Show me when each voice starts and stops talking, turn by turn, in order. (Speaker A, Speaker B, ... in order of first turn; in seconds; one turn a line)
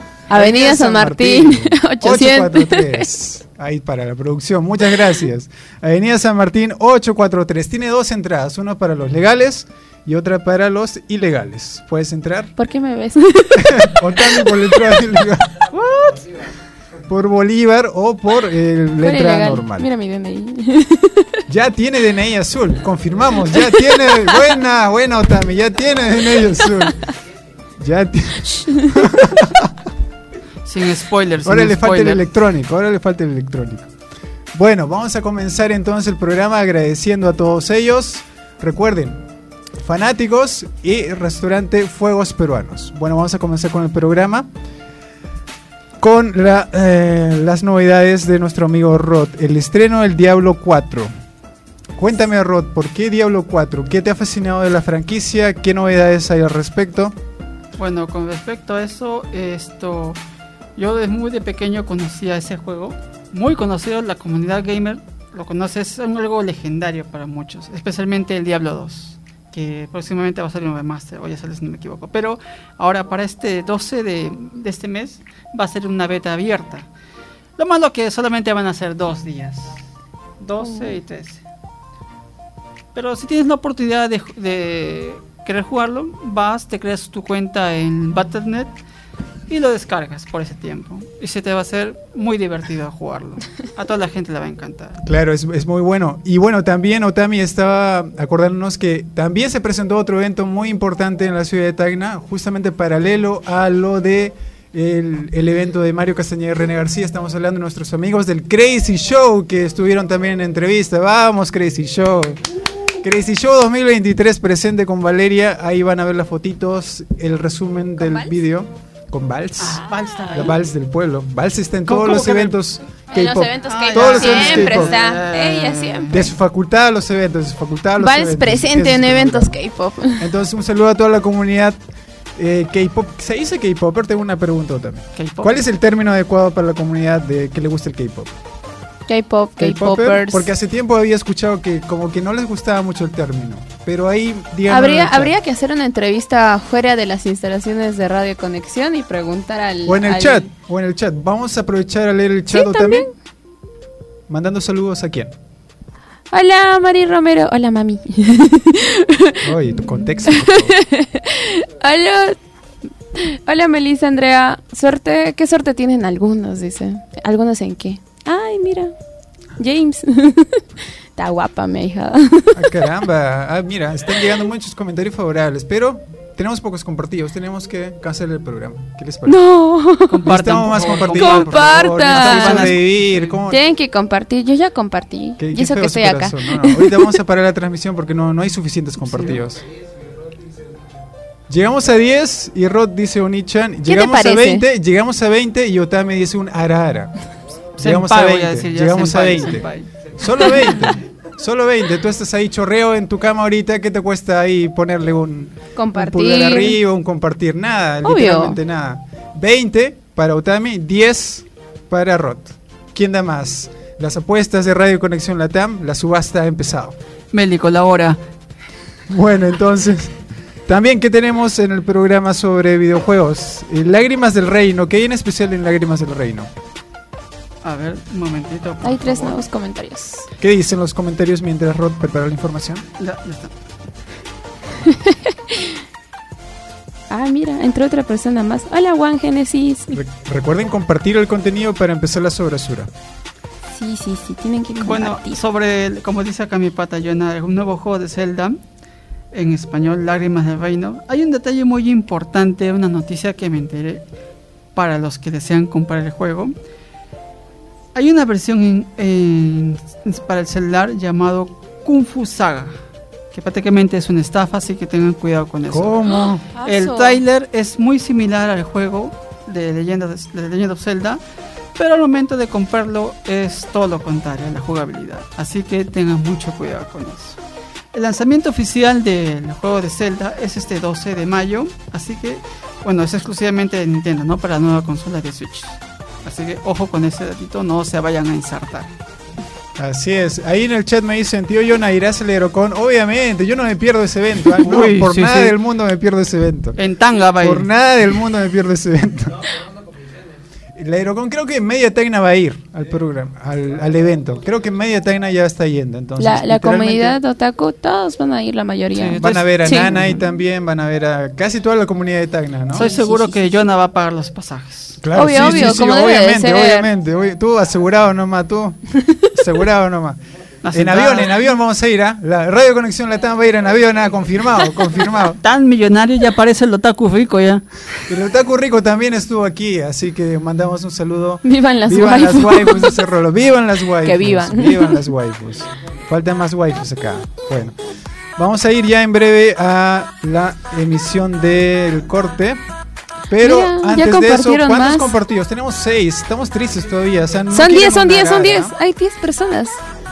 Speaker A: 0.3-3.0
Speaker B: 0.3-12.5
Speaker A: 12.6-14.8
Speaker B: 13.6-15.7
Speaker C: 15.7-16.2
Speaker B: 17.1-19.9
Speaker A: 19.0-21.4
Speaker B: 21.5-27.0
Speaker A: 23.7-24.4
Speaker B: 27.8-29.7
Speaker C: 30.6-32.2
Speaker B: 31.4-33.9
Speaker B: 34.5-39.2
Speaker B: 39.8-44.5
Speaker B: 46.0-51.1
Speaker B: 52.0-57.1
Speaker C: 57.8-60.2
Speaker C: 60.8-76.9
Speaker C: 77.6-79.8
Speaker C: 80.4-81.4
Speaker A: 80.6-81.0
Speaker C: 82.9-88.7
Speaker C: 89.5-95.0
Speaker B: 95.0-112.4
Speaker B: 113.0-124.9
Speaker A: 118.0-118.3
Speaker C: 119.6-120.6
Speaker C: 121.9-122.6
Speaker A: 123.1-126.2
Speaker C: 123.6-126.3
Speaker B: 126.1-129.6
Speaker A: 128.0-130.2
Speaker B: 130.2-131.8
Speaker B: 132.4-138.3
Speaker C: 135.2-135.6
Speaker A: 139.1-140.5
Speaker B: 139.6-145.3
Speaker A: 144.7-150.5
Speaker B: 149.8-153.1
Speaker A: 152.5-153.1
Speaker B: 154.3-155.3
Speaker A: 156.3-159.4
Speaker B: 159.4-160.8
Speaker A: 160.2-162.4
Speaker A: 163.2-168.9
Speaker A: 169.6-170.6
Speaker A: 171.2-172.7
Speaker B: 172.5-179.4
Speaker A: 179.2-180.2
Speaker C: 180.1-183.3
Speaker B: 180.2-183.6
Speaker A: 181.1-182.8
Speaker A: 183.5-187.1
Speaker B: 185.4-189.6
Speaker C: 189.1-189.4
Speaker B: 191.5-197.1
Speaker A: 193.9-194.6
Speaker B: 197.8-216.9
Speaker C: 197.8-199.9
Speaker A: 205.8-206.8
Speaker A: 208.0-208.6
Speaker C: 217.3-218.2
Speaker B: 219.1-220.1
Speaker B: 220.7-226.5
Speaker C: 227.6-229.4
Speaker A: 228.8-230.3
Speaker B: 230.4-232.8
Speaker C: 233.0-233.5
Speaker A: 234.8-235.7
Speaker A: 237.1-239.9
Speaker B: 239.9-242.9
Speaker A: 243.7-245.4
Speaker C: 244.8-248.6
Speaker C: 249.3-254.0
Speaker C: 254.7-256.5
Speaker C: 257.9-262.7
Speaker C: 263.3-266.1
Speaker B: 265.7-266.4
Speaker A: 266.5-267.2
Speaker C: 266.6-271.2
Speaker C: 271.8-277.4
Speaker C: 277.9-288.9
Speaker B: 289.8-296.8
Speaker C: 294.6-295.6
Speaker C: 296.8-297.7
Speaker B: 297.4-299.4
Speaker B: 300.8-307.2
Speaker A: 306.2-310.1
Speaker C: 308.9-310.1
Speaker B: 309.2-312.9
Speaker C: 312.7-315.6
Speaker A: 312.8-313.6
Speaker B: 315.0-320.2
Speaker A: 315.1-316.9
Speaker C: 320.6-321.3
Speaker B: 320.7-325.4
Speaker C: 325.4-327.6
Speaker B: 328.1-337.7
Speaker A: 331.4-333.0
Speaker A: 334.0-335.1
Speaker B: 338.4-342.6
Speaker B: 343.3-348.7
Speaker A: 343.4-345.1
Speaker A: 347.5-349.8